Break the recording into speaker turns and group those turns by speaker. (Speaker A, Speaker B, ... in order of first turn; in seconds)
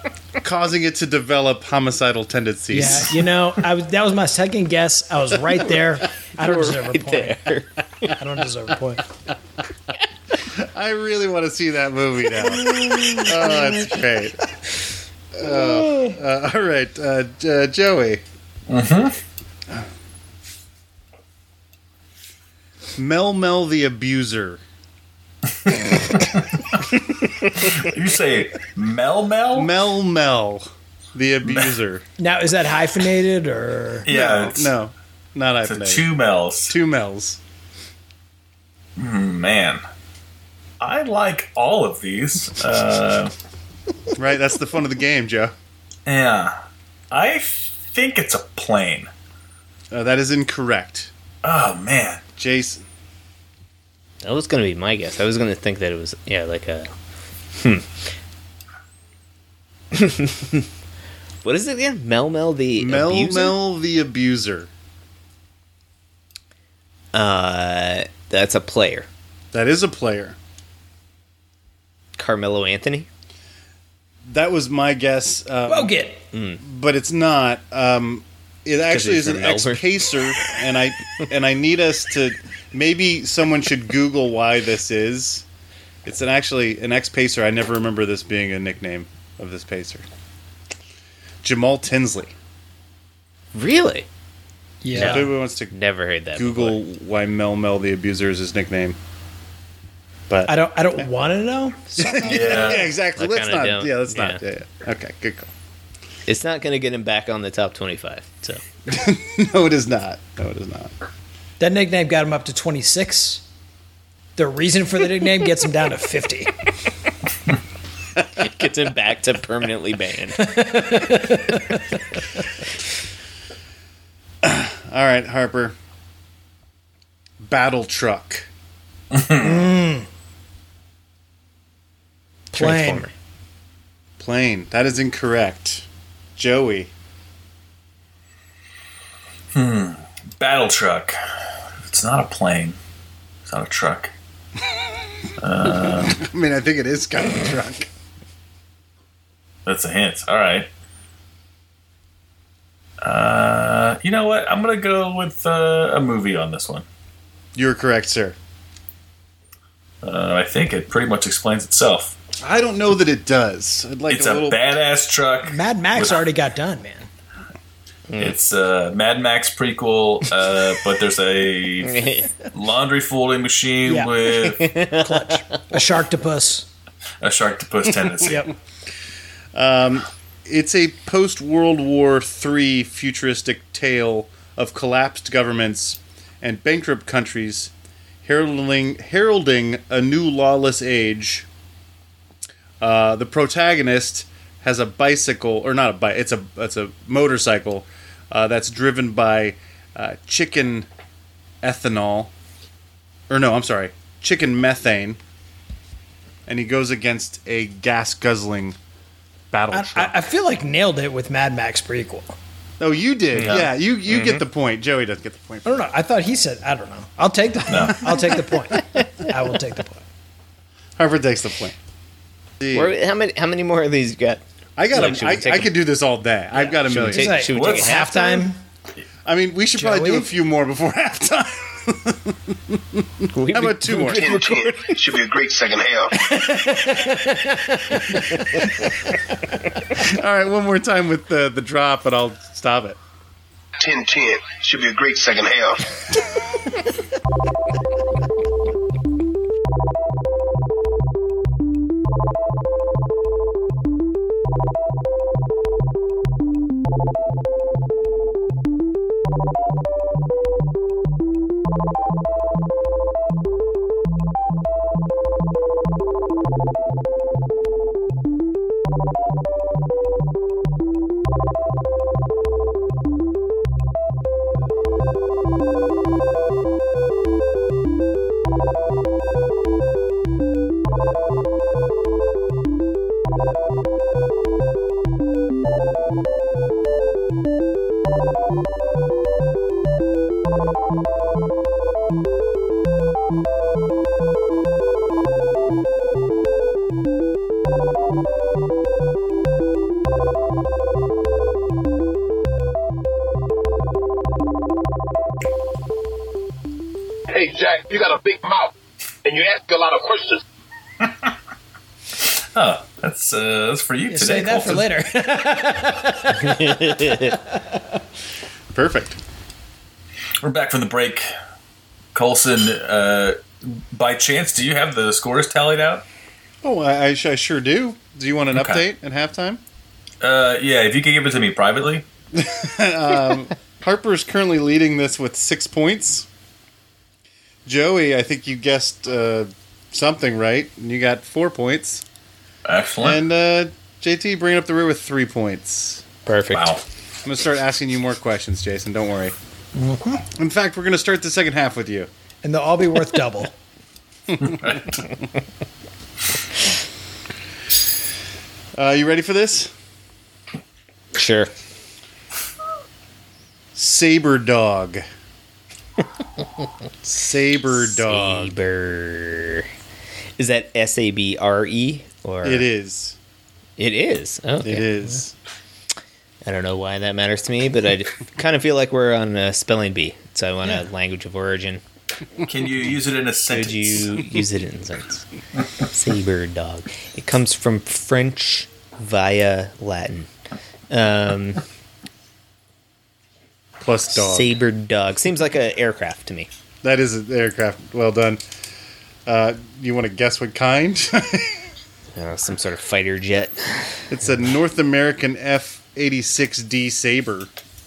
Speaker A: 0.4-3.1, 10.4-14.4, 15.3-18.2, 23.0-24.6, 29.5-32.0, 34.1-36.1, 36.7-37.4, 44.1-45.5, 49.9-51.1, 52.4-52.8, 62.8-64.7, 69.5-70.3, 74.2-76.0, 76.6-85.4, 86.0-90.0, 91.4-92.3, 94.9-95.7, 96.3-99.0, 100.3-101.0, 102.0-105.5, 108.9-110.9, 124.4-125.7, 127.4-128.5, 134.2-136.9, 145.8-147.9, 157.5-158.3, 162.4-164.6, 178.1-178.3, 179.5-187.7, 188.2-191.5, 192.8-200.9, 201.6-202.3, 203.3-205.2, 206.5-208.8, 209.5-210.2, 212.8-215.9, 221.0-221.8, 222.6-222.9, 224.8-227.5, 229.2-234.3, 239.9-243.0, 318.7-319.2, 326.6-329.6, 332.3-336.3, 337.6-342.0, 343.0-346.0, 347.2-349.3, 350.3-352.1, 358.7-359.7, 363.7-365.0, 367.1-368.6, 372.4-373.2, 374.6-375.3, 393.8-394.5, 396.8-398.4, 399.2-401.6, 404.1-407.5
Speaker B: 2.7-7.5, 8.1-9.0, 32.2-34.1, 75.7-76.2, 94.8-95.3, 100.5-102.8, 111.6-113.4, 114.3-116.5, 120.4-122.2, 129.4-130.1, 132.5-133.1, 165.5-167.1, 173.8-174.1, 174.9-176.7, 178.2-178.5, 209.7-212.3, 215.6-220.0, 227.1-228.6, 229.7-230.3, 236.1-238.4, 314.1-317.8, 349.8-350.2, 352.4-353.5
Speaker C: 6.4-8.1, 12.3-14.0, 54.2-56.9, 57.5-57.9, 59.9-60.7, 61.4-63.6, 67.1-69.1, 72.2-73.1, 76.3-76.6, 78.8-80.0, 93.5-94.0, 94.9-96.8, 103.2-104.4, 106.2-108.6, 118.3-120.5, 132.5-133.1, 168.1-168.3, 171.8-172.4, 174.5-175.4, 213.3-214.4, 222.7-225.8, 226.5-228.5, 233.3-235.0, 316.4-317.4, 346.2-346.7, 361.1-361.5, 367.7-369.7, 370.4-372.6, 373.8-375.2, 376.4-381.8, 383.5-385.2, 385.8-390.3, 390.9-391.6, 394.1-396.5, 402.1-404.0
Speaker D: 18.7-19.2, 25.6-26.6, 27.4-29.7, 31.4-31.7, 34.0-34.7, 35.6-36.8, 39.0-39.8, 40.8-43.3, 46.0-46.5, 47.1-49.1, 51.4-52.2, 102.2-102.9, 129.1-129.6, 139.5-141.2, 141.8-142.8, 143.4-144.1, 145.4-146.2, 149.7-150.7, 153.0-156.8, 160.0-162.1, 164.1-166.2, 168.2-174.6, 177.2-178.5, 213.4-213.7, 217.7-218.1, 227.5-227.9, 312.2-314.9, 320.4-321.3, 322.1-326.0, 328.5-328.8, 330.2-332.0, 342.6-343.2, 346.5-346.8, 354.4-355.1, 382.4-384.2
Speaker E: 234.1-236.1, 243.8-245.8, 307.3-308.7, 309.2-310.4